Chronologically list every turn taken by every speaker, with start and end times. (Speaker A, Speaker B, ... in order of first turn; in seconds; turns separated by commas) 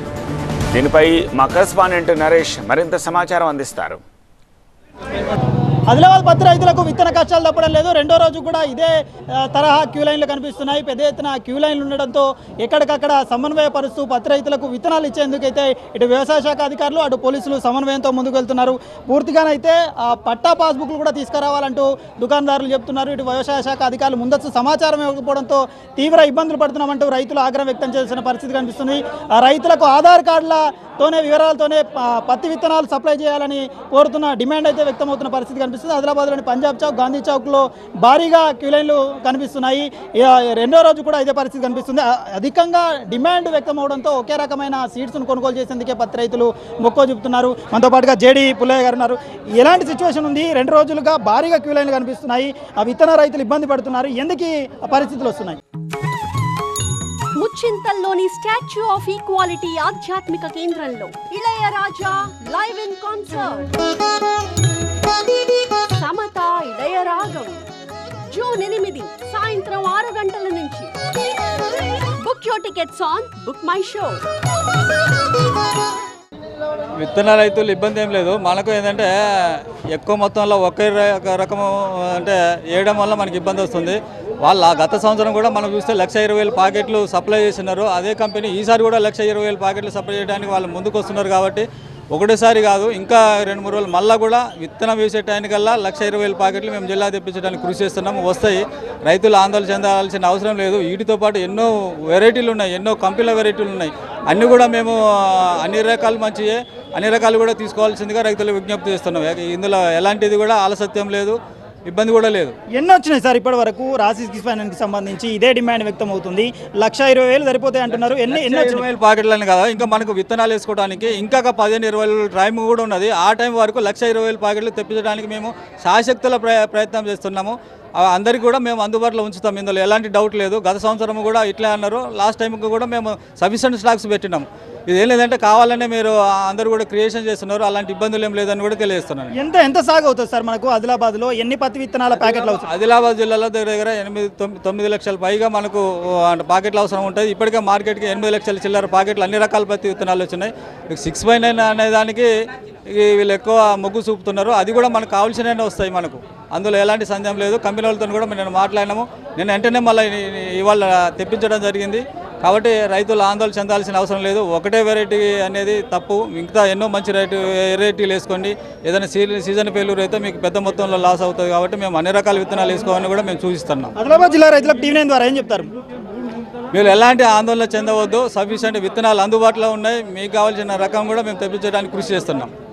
Speaker A: 0.7-4.0, Speaker B: 5.9-55.6, Speaker C: 57.4-63.7, Speaker C: 66.0-67.6, Speaker C: 68.3-70.9, Speaker C: 72.2-74.2, Speaker D: 77.0-112.5, Speaker B: 112.7-118.9, Speaker D: 118.3-139.3, Speaker B: 139.3-142.7, Speaker D: 142.3-152.3, Speaker D: 152.9-173.9, Speaker B: 173.9-175.7, Speaker D: 176.7-182.5